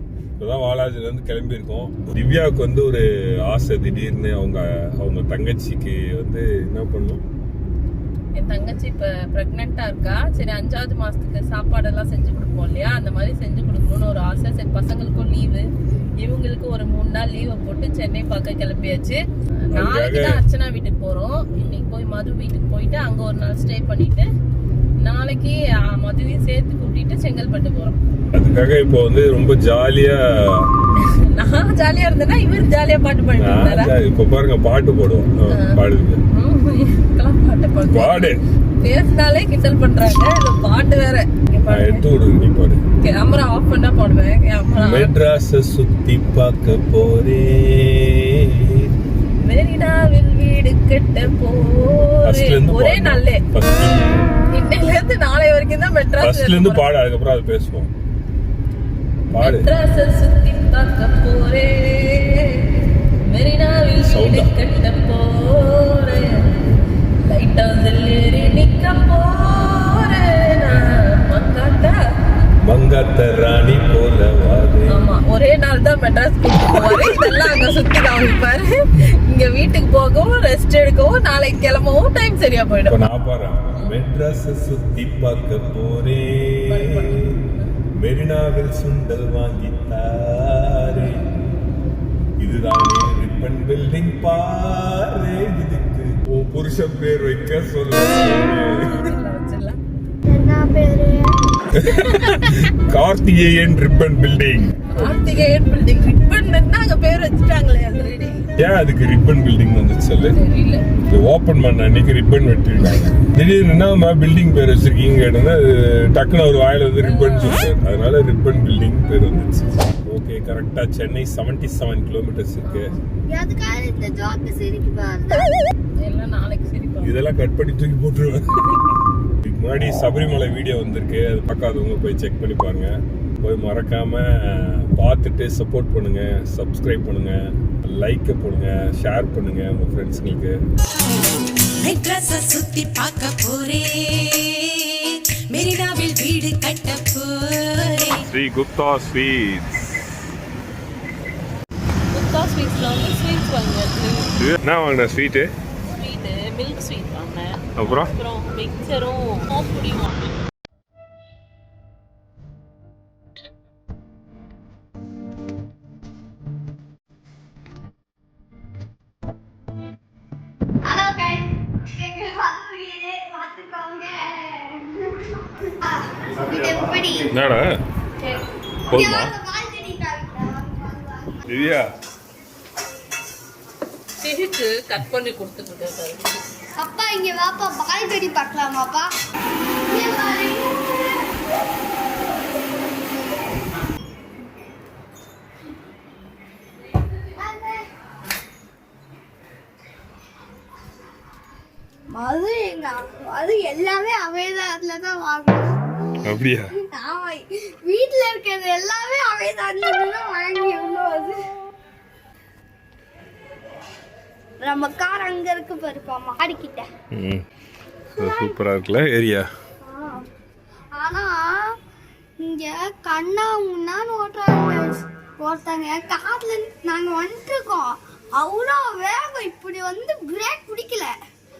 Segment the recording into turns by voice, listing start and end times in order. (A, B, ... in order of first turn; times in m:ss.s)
0:00.4-0:07.2 A
0:08.4-0:15.6 B
0:16.2-0:19.2 B
0:19.7-0:24.3 B
0:19.7-0:20.4 A
0:25.0-0:28.0 B
0:28.3-0:30.7 A
0:31.0-0:33.9 B
0:33.4-0:36.2 A
0:36.3-0:42.1 B
0:37.9-0:38.4 A
0:41.7-0:42.8 A
0:43.0-0:45.1 B
0:44.7-0:48.9 A
0:49.4-0:53.4 B
0:52.2-0:54.3 A
0:54.5-0:56.8 B
0:56.2-0:57.9 A
0:59.3-0:59.7 A
0:59.4-1:06.6 B
1:04.0-1:04.5 A
1:07.2-1:12.0 B
1:12.6-1:15.0 A
1:14.9-1:23.0 B
1:16.7-1:17.1 A
1:22.8-1:27.4 A
1:26.7-1:27.7 B
1:27.9-1:31.4 A
1:32.4-1:39.1 A
1:38.6-1:39.8 B
1:40.2-1:41.4 C
1:41.8-1:45.3 A
1:41.9-1:42.5 B
1:44.9-1:48.4 B
1:48.6-1:50.4 A
1:50.3-1:50.8 B
1:51.1-2:02.9 A
1:57.0-1:57.6 B
2:02.6-2:03.0 B
2:03.3-2:05.5 C
2:06.0-2:07.1 B
2:07.0-2:08.8 A
2:09.4-2:20.6 A
2:21.8-2:28.2 D
2:28.2-2:30.1 A
2:32.1-2:34.4 B
2:34.4-2:35.5 A
2:35.8-2:40.4 B
2:37.8-2:38.1 A
2:50.8-2:57.3 C
2:57.3-2:57.7 A
2:58.9-2:59.3 A
2:58.9-3:01.5 C
3:01.5-3:01.9 A
3:04.2-3:06.4 B
3:06.8-3:09.1 C
3:09.9-3:11.0 C
3:17.3-3:17.8 C
3:22.1-3:25.7 C
3:26.2-3:26.7 A
3:26.8-3:31.4 C
3:34.6-3:36.9 C
3:37.1-3:37.4 A
3:38.2-3:39.5 A
3:38.2-3:38.6 C
3:39.8-3:40.2 C
3:41.0-3:41.7 C
3:42.4-3:51.1 C